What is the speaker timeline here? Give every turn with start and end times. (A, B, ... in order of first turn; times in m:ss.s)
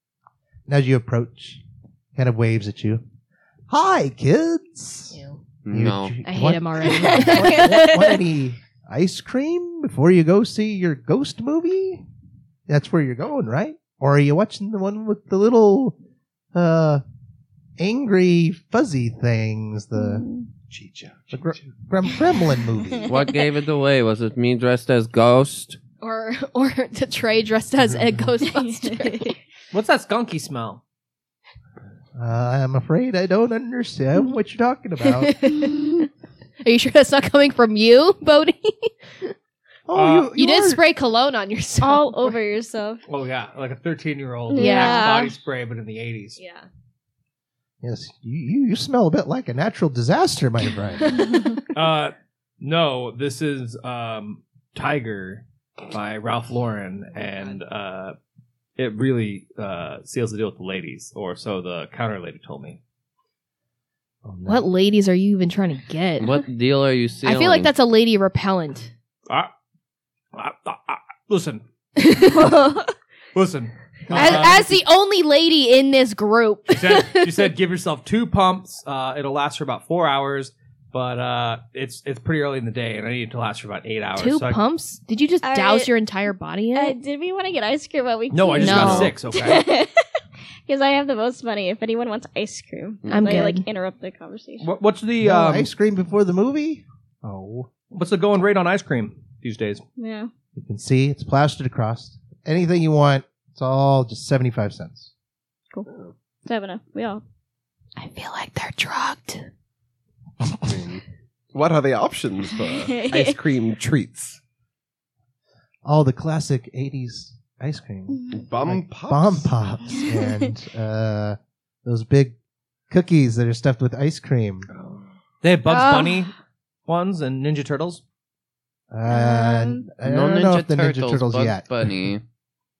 0:00.7-0:01.6 A
0:02.1-0:03.0 A
0:03.7-0:12.0 A
0:05.1-0:05.4 B
0:05.6-0:06.2 C
0:06.2-0:08.2 B
0:12.7-0:16.0 A
0:16.5-0:17.0 A
0:17.8-0:20.2 A
0:19.9-0:20.5 D
0:20.7-0:21.7 E
0:21.3-0:23.1 A
0:23.1-0:25.8 C
0:26.0-0:29.4 B
0:28.8-0:29.2 D
0:29.7-0:30.8 F
0:32.1-0:35.3 A
0:35.0-0:36.1 B
0:36.6-0:39.3 B
0:39.9-0:40.8 A
0:39.9-0:40.3 F
0:40.3-0:42.4 B
0:41.8-0:43.0 D
0:43.1-0:46.4 F
0:44.5-0:45.3 D
0:44.6-0:45.2 B
0:46.4-0:46.7 B
0:47.8-0:51.2 A
0:51.7-0:58.2 F
0:57.2-0:57.6 B
0:58.8-1:02.8 F
1:04.2-1:04.7 A
1:04.4-1:06.3 B
1:06.2-1:07.7 C
1:07.2-1:08.9 B
1:10.3-1:11.6 F
1:12.0-1:12.8 B
1:12.4-1:12.7 D
1:13.3-1:14.7 F
1:14.1-1:14.5 A
1:14.1-1:17.5 B
1:16.7-1:24.6 F
1:24.2-1:27.0 B
1:25.4-1:25.9 D
1:26.7-1:30.1 D
1:28.3-1:29.6 F
1:28.6-1:29.1 B
1:28.7-1:29.1 C
1:30.6-1:34.7 D
1:33.0-1:33.4 C
1:33.1-1:33.7 B
1:34.6-1:35.7 F
1:35.2-1:37.7 A
1:37.9-1:39.8 F
1:40.0-1:40.3 D
1:40.5-1:45.1 A
1:45.9-1:46.1 E
1:46.4-1:47.2 D
1:48.0-1:49.5 B
1:50.6-1:54.4 E
1:52.8-1:53.4 D
1:55.8-2:02.4 A
1:58.1-1:58.4 D
1:58.3-1:59.5 E
2:02.9-2:04.7 A
2:04.7-2:05.1 E
2:05.4-2:06.3 F
2:05.7-2:06.3 D
2:06.9-2:08.0 F
2:08.9-2:12.1 A
2:09.1-2:09.9 D
2:10.0-2:12.2 C